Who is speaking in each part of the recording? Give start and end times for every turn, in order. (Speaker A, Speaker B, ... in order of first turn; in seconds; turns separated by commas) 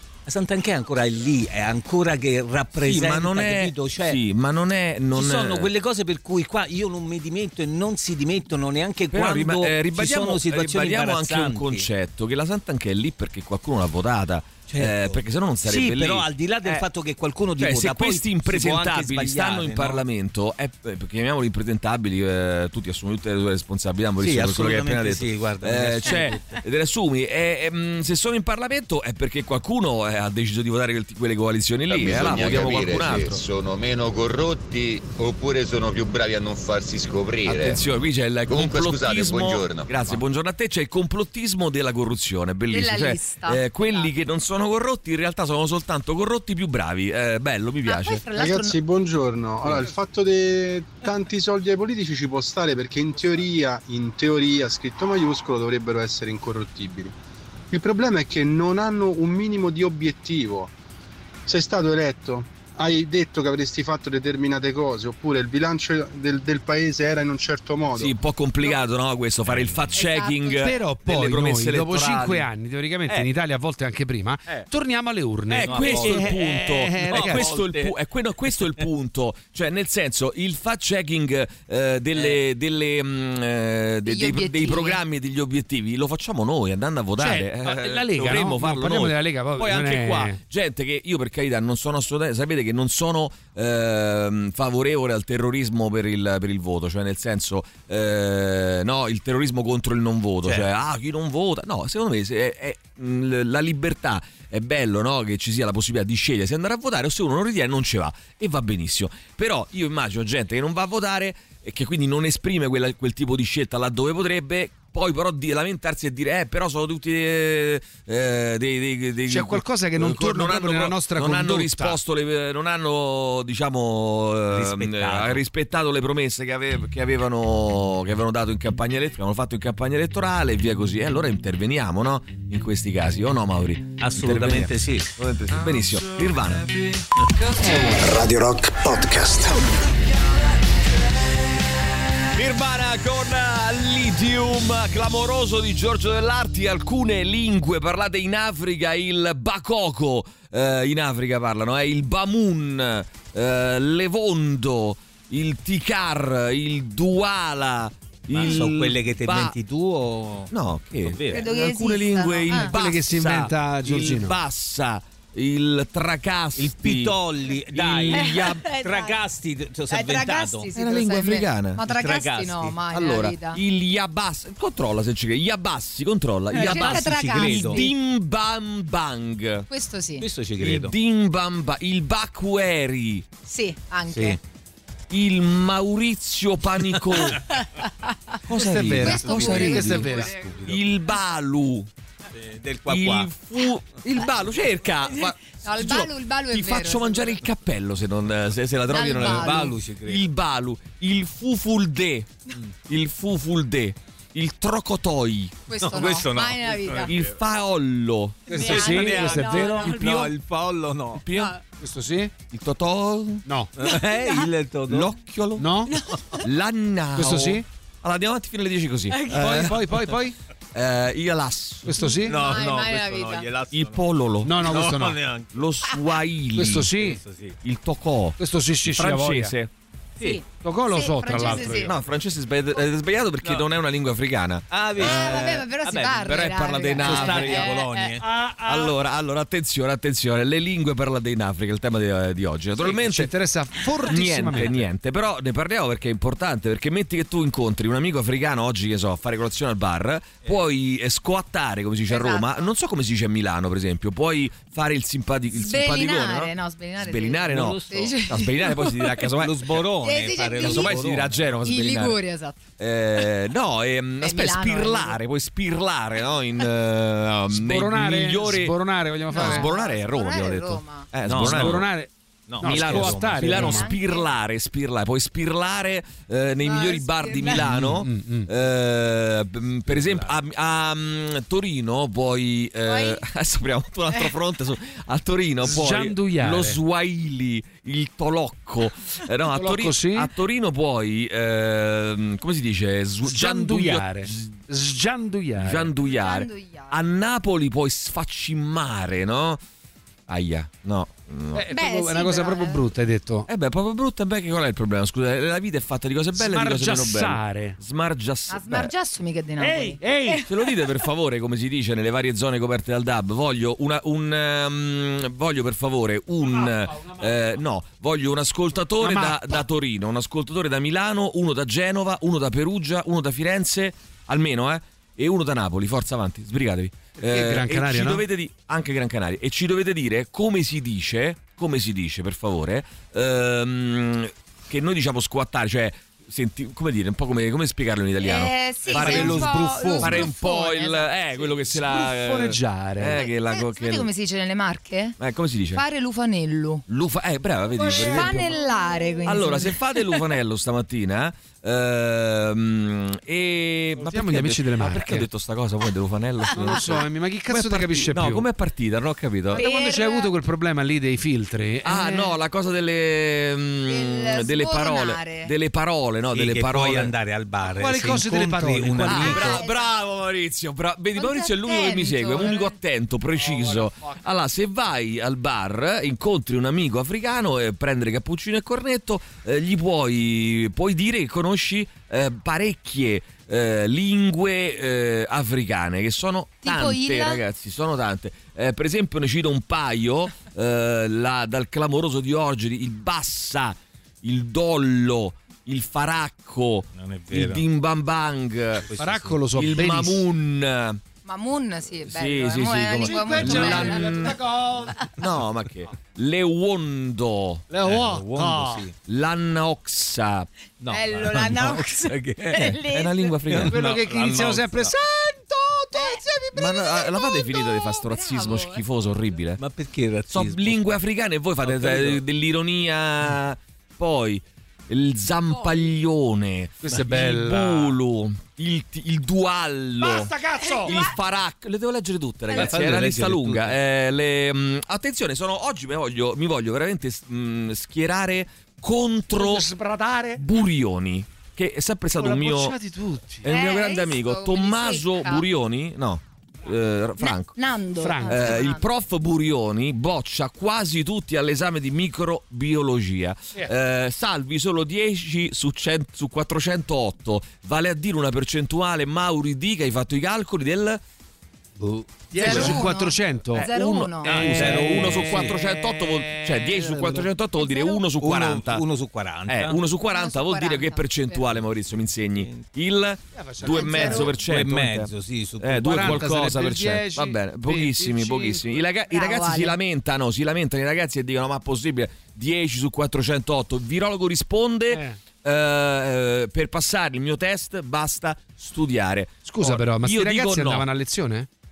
Speaker A: 0.3-4.2, Speaker B: 2.8-5.7, Speaker A: 5.1-11.9, Speaker B: 9.1-16.9, Speaker A: 14.7-20.0, Speaker B: 17.6-33.4, Speaker A: 24.2-26.6, Speaker C: 31.9-37.8, Speaker B: 37.4-48.2, Speaker C: 38.5-40.2, Speaker D: 42.7-44.1, Speaker D: 47.9-48.8, Speaker E: 48.4-57.1, Speaker E: 57.7-60.7, Speaker E: 61.5-68.1, Speaker B: 67.9-72.5, Speaker A: 69.5-69.9, Speaker D: 69.9-70.7, Speaker F: 70.6-77.5, Speaker B: 75.5-136.7, Speaker A: 75.6-78.0, Speaker A: 78.5-78.8, Speaker D: 84.1-85.0, Speaker F: 87.2-90.4, Speaker F: 119.3-122.0, Speaker A: 124.5-125.4, Speaker A: 134.0-135.1, Speaker G: 137.7-139.6, Speaker B: 142.3-159.6, Speaker A: 158.3-161.4, Speaker B: 160.5-167.2, Speaker D: 161.3-162.8, Speaker F: 162.7-164.4, Speaker A: 166.6-170.7, Speaker B: 167.7-168.6, Speaker D: 168.1-169.2, Speaker D: 169.9-173.6, Speaker B: 170.7-171.8, Speaker A: 171.9-172.8, Speaker B: 172.9-179.7, Speaker A: 176.5-177.8, Speaker D: 176.5-177.9, Speaker D: 179.7-180.3, Speaker A: 180.2-180.9, Speaker B: 180.6-183.3, Speaker D: 183.5-184.4, Speaker A: 184.1-184.4, Speaker B: 185.1-187.4, Speaker B: 188.5-191.9, Speaker F: 188.5-190.3, Speaker A: 188.8-190.8, Speaker D: 189.0-190.5, Speaker A: 192.3-193.3, Speaker B: 192.9-202.3, Speaker D: 195.1-197.4, Speaker D: 198.9-199.7, Speaker A: 199.1-200.3, Speaker B: 202.9-205.6, Speaker D: 205.7-207.1, Speaker A: 205.8-207.3, Speaker B: 207.1-209.2, Speaker D: 208.5-209.9, Speaker F: 208.5-210.0, Speaker A: 208.6-211.2, Speaker B: 209.8-210.3, Speaker B: 211.2-211.5, Speaker F: 211.8-212.3, Speaker B: 212.5-213.4, Speaker A: 213.8-215.1, Speaker B: 214.9-215.7, Speaker F: 215.6-215.9, Speaker B: 216.4-219.9, Speaker F: 217.2-217.7, Speaker F: 219.3-220.3, Speaker B: 220.7-222.6, Speaker F: 221.8-222.4, Speaker A: 222.3-224.1, Speaker D: 222.3-223.5, Speaker B: 223.7-224.8, Speaker F: 224.4-225.2, Speaker A: 224.6-225.5, Speaker B: 225.5-226.9, Speaker F: 226.6-227.2, Speaker A: 227.0-227.6, Speaker B: 227.6-229.7, Speaker F: 228.4-229.5, Speaker D: 230.2-231.9, Speaker F: 230.5-231.9, Speaker B: 231.8-235.6, Speaker A: 233.4-233.7, Speaker A: 234.7-238.2, Speaker D: 235.0-238.2, Speaker B: 236.2-237.8, Speaker F: 238.2-238.9, Speaker B: 238.6-243.3, Speaker F: 242.8-244.8, Speaker B: 244.0-259.6, Speaker D: 252.1-252.7, Speaker D: 255.5-258.9, Speaker A: 257.5-258.2, Speaker A: 259.4-261.4, Speaker D: 260.0-261.0, Speaker B: 260.5-262.2, Speaker D: 261.6-262.6, Speaker B: 262.8-268.8, Speaker D: 264.2-265.2, Speaker F: 267.5-269.7, Speaker D: 269.3-271.1, Speaker B: 269.3-271.9, Speaker A: 271.3-271.9, Speaker F: 271.4-272.1, Speaker A: 272.5-273.8, Speaker F: 272.6-273.8, Speaker B: 272.6-294.5, Speaker D: 273.5-274.3, Speaker D: 276.6-277.7, Speaker F: 277.6-278.5, Speaker A: 279.9-280.4, Speaker D: 282.9-283.2, Speaker F: 285.6-286.8, Speaker F: 289.5-290.3, Speaker F: 293.2-295.9, Speaker B: 295.6-299.6, Speaker D: 296.0-297.0, Speaker B: 300.3-301.7, Speaker F: 301.5-303.5, Speaker D: 301.7-302.8, Speaker B: 303.5-308.9, Speaker F: 306.4-307.8, Speaker D: 308.5-310.4, Speaker F: 309.6-310.4, Speaker B: 310.4-344.1, Speaker F: 316.6-317.1, Speaker F: 319.0-319.6, Speaker F: 327.2-328.2, Speaker D: 338.2-341.5, Speaker F: 338.9-340.3, Speaker F: 341.7-343.2, Speaker D: 343.1-345.2, Speaker B: 345.2-345.8, Speaker D: 345.7-346.8, Speaker B: 346.9-348.6, Speaker D: 347.8-350.1, Speaker F: 347.9-348.5, Speaker B: 349.2-359.7, Speaker F: 354.0-355.3, Speaker F: 356.5-358.5, Speaker F: 359.5-362.3, Speaker D: 359.5-360.3, Speaker B: 361.8-367.1, Speaker D: 363.9-365.5, Speaker A: 366.3-369.6, Speaker F: 367.6-369.5, Speaker B: 369.1-398.9, Speaker D: 369.3-369.9, Speaker D: 371.1-372.7, Speaker F: 373.4-374.1, Speaker D: 386.6-387.4, Speaker A: 396.9-397.6, Speaker A: 398.9-399.4, Speaker F: 399.0-400.2, Speaker B: 399.6-401.0, Speaker D: 401.2-404.3, Speaker B: 402.1-404.5, Speaker F: 403.0-405.0, Speaker B: 405.1-407.6, Speaker F: 407.7-408.9, Speaker A: 407.8-408.9, Speaker B: 409.1-410.5, Speaker A: 410.8-412.8, Speaker D: 410.9-413.3, Speaker B: 412.6-413.9, Speaker A: 413.5-414.9, Speaker F: 413.6-416.7, Speaker D: 415.9-418.8, Speaker B: 416.5-419.6, Speaker A: 419.6-421.0, Speaker B: 420.3-439.7, Speaker A: 421.6-422.2, Speaker D: 425.5-425.9, Speaker F: 426.8-427.9, Speaker F: 430.0-431.0, Speaker D: 430.6-431.1, Speaker A: 432.5-433.8, Speaker F: 439.4-440.4, Speaker B: 440.4-442.8, Speaker F: 442.2-443.5, Speaker B: 443.4-447.6, Speaker D: 443.5-445.5, Speaker D: 447.2-448.9, Speaker F: 448.0-448.7, Speaker B: 448.3-461.0, Speaker F: 461.8-463.7, Speaker D: 462.4-464.6, Speaker B: 462.4-462.9, Speaker B: 463.5-468.8, Speaker A: 464.3-465.6, Speaker F: 464.3-467.3, Speaker D: 467.6-468.0, Speaker A: 468.2-469.8, Speaker B: 469.5-490.9, Speaker D: 470.1-471.5, Speaker A: 472.1-472.6, Speaker F: 473.3-474.3, Speaker A: 473.7-476.3, Speaker D: 473.7-474.3, Speaker F: 475.9-478.8, Speaker D: 479.1-479.8, Speaker F: 484.9-485.2, Speaker F: 489.4-491.5